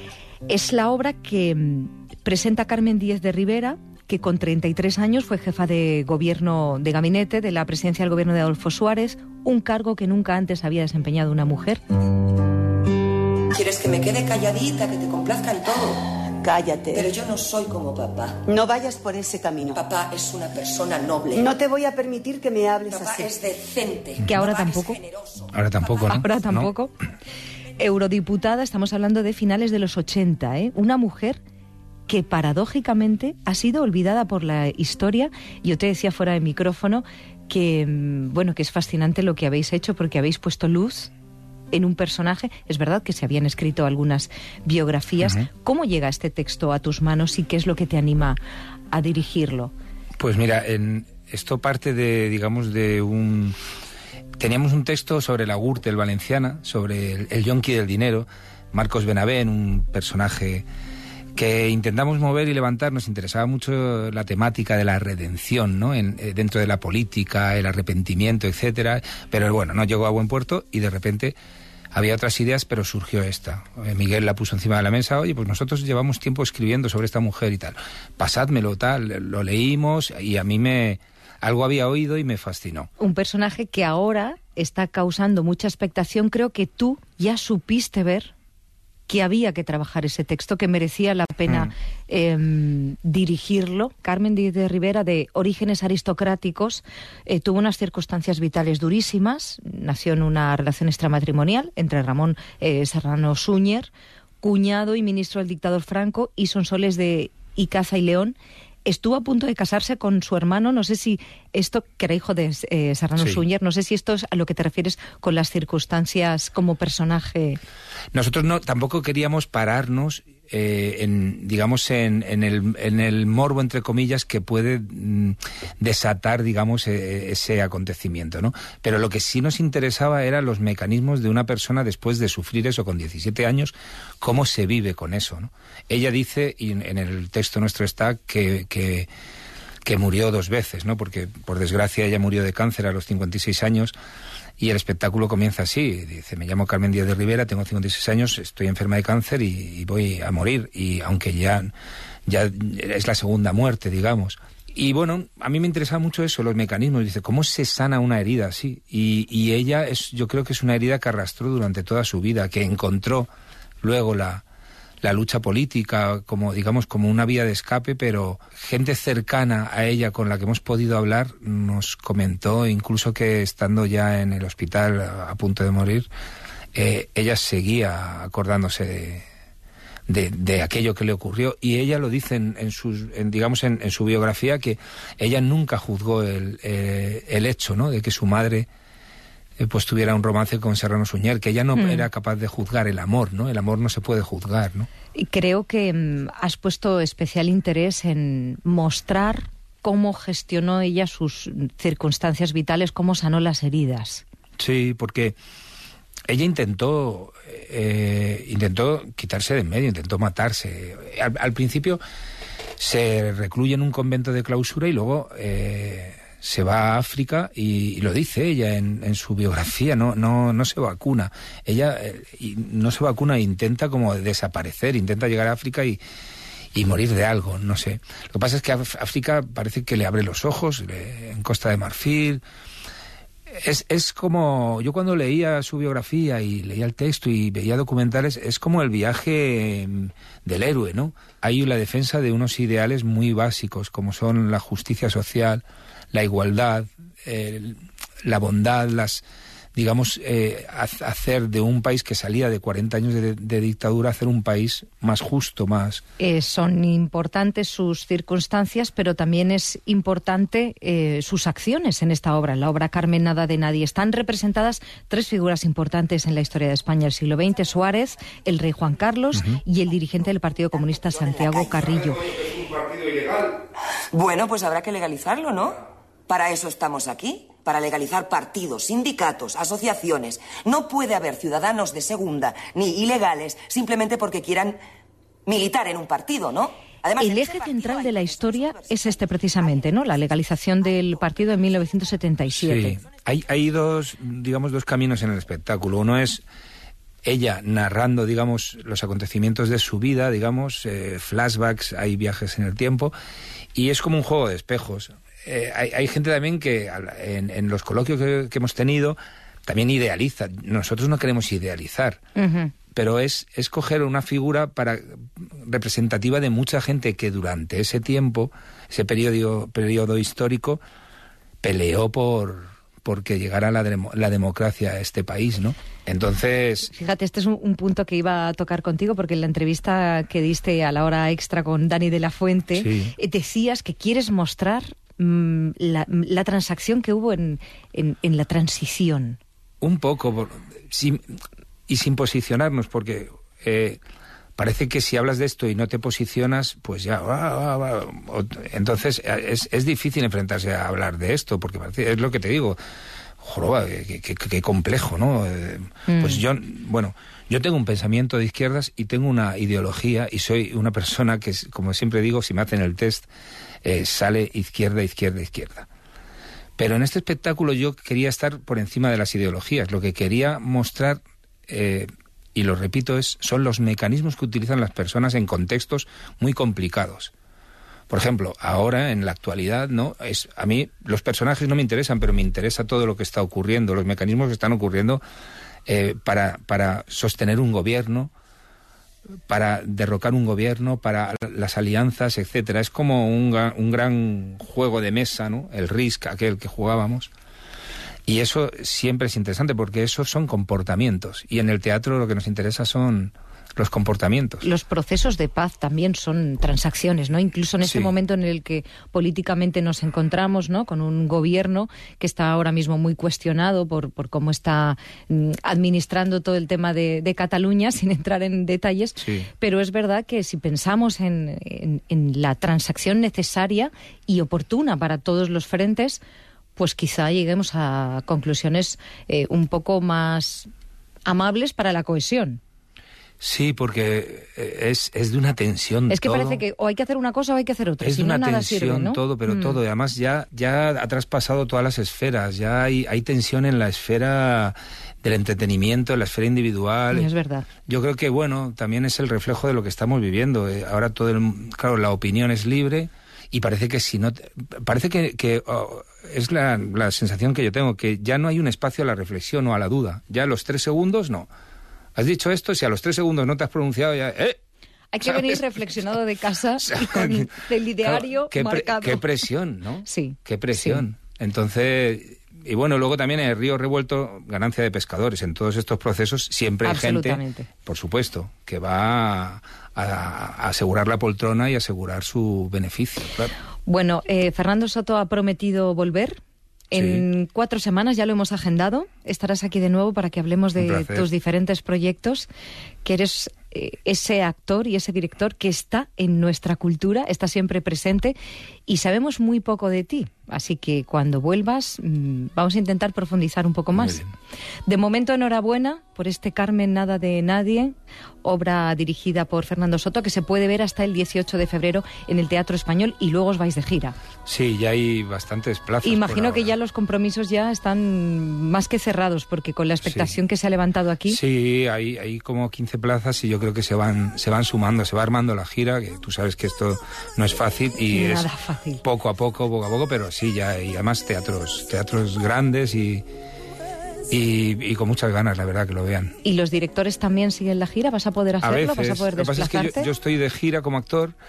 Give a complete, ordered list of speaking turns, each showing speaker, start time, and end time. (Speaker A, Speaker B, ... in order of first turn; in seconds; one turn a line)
Speaker A: 0.5-11.8
Speaker B: 13.5-16.0
Speaker C: 16.4-17.1
Speaker B: 16.9-18.4
Speaker C: 18.4-19.8
Speaker B: 19.7-21.5
Speaker C: 21.3-23.3
Speaker B: 22.9-25.5
Speaker A: 24.3-25.0
Speaker D: 25.5-26.7
Speaker A: 26.1-26.9
Speaker A: 27.8-31.4
Speaker A: 32.1-41.1
Speaker A: 41.7-48.4
Speaker D: 45.2-45.5
Speaker A: 48.9-49.7
Speaker D: 50.2-53.5
Speaker D: 54.4-60.6
Speaker D: 61.3-71.3
Speaker D: 71.9-82.9
Speaker A: 83.0-88.3
Speaker A: 89.1-103.9
Speaker A: 104.4-117.6
Speaker D: 118.1-139.1
Speaker D: 139.8-143.9
Speaker D: 144.6-151.7
Speaker D: 152.3-163.3
Speaker D: 163.8-164.4
Speaker D: 165.0-176.1
Speaker D: 176.7-179.2
Speaker D: 180.1-188.7
Speaker D: 189.6-194.9
Speaker A: 191.7-192.1
Speaker A: 195.2-204.2
Speaker D: 204.6-205.3
Speaker D: 206.3-212.0
Speaker D: 212.8-226.0
Speaker D: 226.7-232.4
Speaker D: 233.5-249.2
Speaker D: 249.7-256.0
Speaker A: 256.2-272.2
Speaker B: 271.3-271.9
Speaker D: 272.4-273.5
Speaker B: 274.1-284.8
Speaker B: 285.4-290.1
Speaker A: 287.2-293.0
Speaker D: 292.5-296.4
Speaker D: 297.2-303.1
Speaker D: 303.7-312.2
Speaker A: 312.4-312.8
Speaker D: 312.9-320.8
Speaker D: 321.6-326.9
Speaker A: 326.9-339.4
Speaker D: 332.7-333.1
Speaker D: 339.8-341.3
Speaker D: 341.9-344.0
Speaker D: 344.6-352.8
Speaker D: 353.4-363.3
Speaker A: 356.1-356.4
Speaker D: 363.8-365.9
Speaker D: 366.8-377.3
Speaker D: 378.1-385.2
Speaker D: 385.9-388.3
Speaker D: 389.5-397.3
Speaker D: 398.3-404.6
Speaker A: 404.6-426.2
Speaker D: 407.8-408.1
Speaker D: 419.2-419.5
Speaker A: 426.8-430.7
Speaker A: 431.2-432.6
Speaker D: 433.4-436.6
Speaker A: 436.1-439.8
Speaker D: 438.0-447.3
Speaker A: 447.1-447.7
Speaker D: 447.9-461.5
Speaker D: 462.1-464.6
Speaker A: 465.1-469.3
Speaker D: 465.3-465.6
Speaker D: 466.8-483.5
Speaker A: 470.0-471.0
Speaker A: 476.8-477.7
Speaker A: 483.9-486.4
Speaker A: 486.9-492.5
Speaker D: 486.9-487.2
Speaker D: 490.8-491.3
Speaker A: 493.0-498.4
Speaker A: 498.9-504.2
Speaker D: 503.9-504.3
Speaker A: 504.9-514.1
Speaker D: 514.5-516.7
Speaker A: 516.0-521.4
Speaker D: 520.0-520.3
Speaker D: 521.3-528.5
Speaker A: 528.1-529.0
Speaker D: 529.0-533.2
Speaker D: 534.3-536.3
Speaker A: 536.4-540.1
Speaker D: 538.6-541.3